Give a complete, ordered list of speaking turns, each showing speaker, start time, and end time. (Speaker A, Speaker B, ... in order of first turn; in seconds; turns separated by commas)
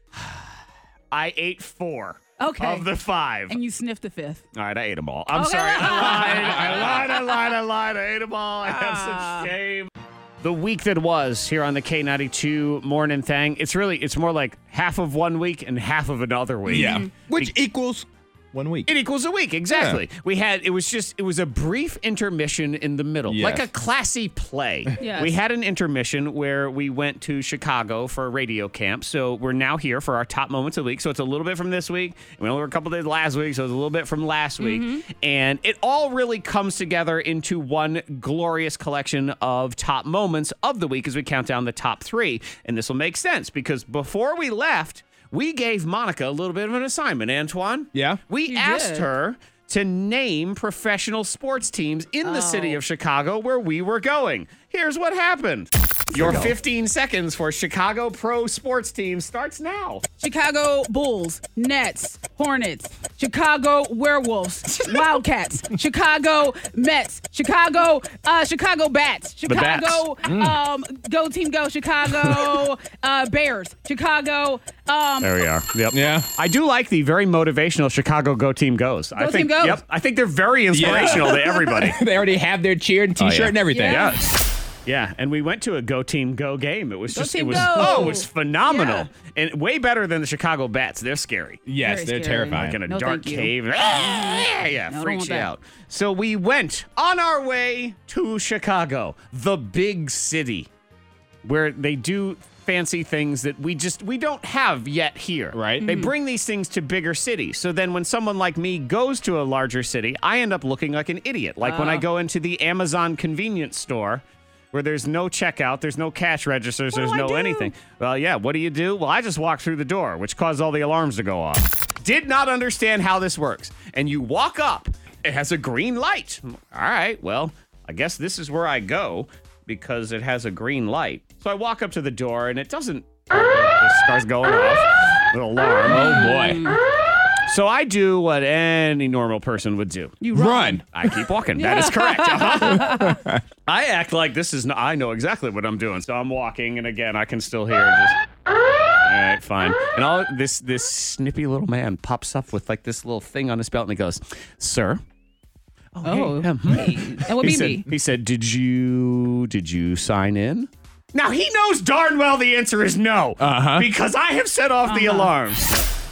Speaker A: 0.1-3.6, Speaker B: 2.4-2.9, Speaker B: 3.5-4.4, Speaker A: 4.5-17.5, Speaker B: 5.3-6.9, Speaker B: 8.6-9.5, Speaker C: 16.6-18.9, Speaker B: 16.7-17.1, Speaker A: 18.9-60.0, Speaker C: 19.7-20.0, Speaker C: 23.3-23.7, Speaker B: 25.0-25.3, Speaker B: 34.6-35.0, Speaker C: 47.9-48.2, Speaker B: 48.5-49.1, Speaker B: 52.2-52.8, Speaker C: 56.1-56.5, Speaker B: 60.2-75.3, Speaker A: 69.4-70.0, Speaker C: 70.2-70.6, Speaker A: 75.2-82.0, Speaker C: 75.9-76.3, Speaker B: 79.2-79.8, Speaker C: 80.7-84.1, Speaker A: 83.2-84.3, Speaker B: 83.7-84.2, Speaker A: 84.8-91.6, Speaker B: 87.1-89.1, Speaker C: 87.6-88.1, Speaker C: 91.7-92.8, Speaker B: 91.8-95.5, Speaker A: 92.5-100.7, Speaker A: 101.4-136.3, Speaker C: 105.5-105.8, Speaker B: 105.8-106.1, Speaker B: 111.6-112.0, Speaker B: 116.9-117.7, Speaker C: 135.8-136.6, Speaker B: 135.9-136.8, Speaker A: 137.5-140.2, Speaker B: 140.2-140.8, Speaker C: 140.3-140.8, Speaker A: 140.9-143.0, Speaker B: 141.6-143.2, Speaker C: 142.8-143.4, Speaker A: 143.7-148.2, Speaker A: 149.0-155.0, Speaker A: 155.9-165.9, Speaker B: 156.0-157.9, Speaker C: 163.4-163.9, Speaker B: 164.8-165.3